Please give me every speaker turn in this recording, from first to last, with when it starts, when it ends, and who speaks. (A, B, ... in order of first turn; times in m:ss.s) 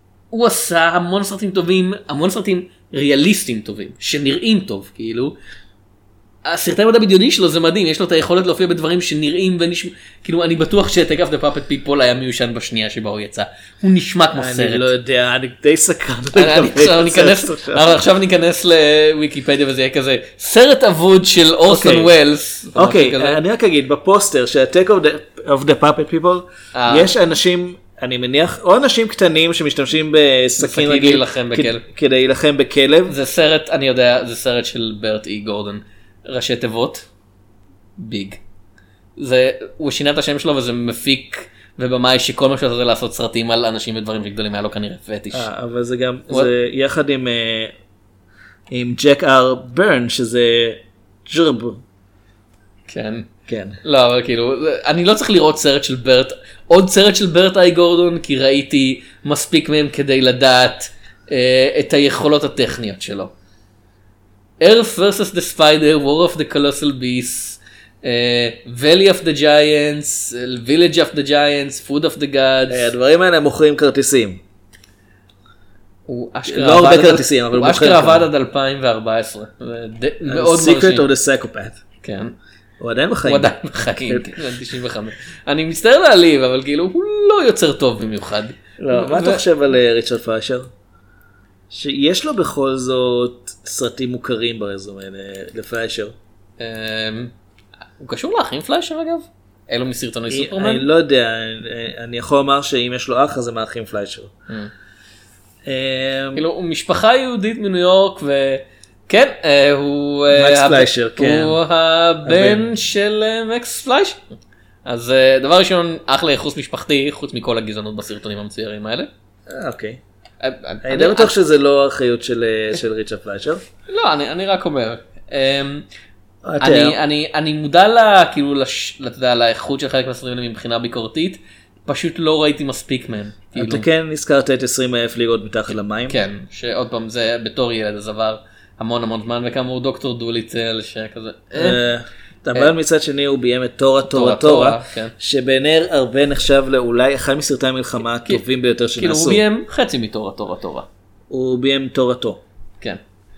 0:00.3-0:05.3 A
0:06.4-0:14.9 A
0:14.3-0:18.0 B
0:16.3-0:23.4 A
0:21.7-0:22.1 B
0:22.7-0:33.1 B
0:26.7-0:27.1 A
0:30.6-0:31.8 A
0:33.1-0:37.1 A
0:38.0-0:38.4 A
0:39.2-0:45.5 A
0:45.3-0:47.7 B
0:48.7-0:51.8 B
0:52.9-0:53.3 A
0:53.5-0:53.8 B
0:53.8-1:03.3 A
1:04.6-1:12.9 A
1:12.7-1:14.4 B
1:16.1-1:21.1 A
1:16.5-1:18.3 B
1:20.2-1:21.8 B
1:22.0-1:22.3 A
1:22.8-1:23.5 B
1:23.2-1:29.4 A
1:24.0-1:24.4 B
1:28.8-1:30.7 B
1:31.7-1:36.1 B
1:36.6-1:37.3 A
1:38.0-1:40.8 A
1:40.3-1:44.3 B
1:45.6-1:46.5 B
1:46.3-1:54.2 A
1:50.3-1:51.6 B
1:52.2-1:52.7 B
1:54.8-1:59.1 A
1:59.5-2:00.0 B
2:00.4-2:01.3 A
2:00.8-2:03.6 B
2:03.9-2:05.8 A
2:06.4-2:07.0 B
2:06.6-2:13.9 A
2:13.6-2:16.2 B
2:16.1-2:21.8 A
2:21.5-2:29.4 B
2:24.1-2:25.1 A
2:29.0-2:30.9 A
2:31.3-2:32.4 B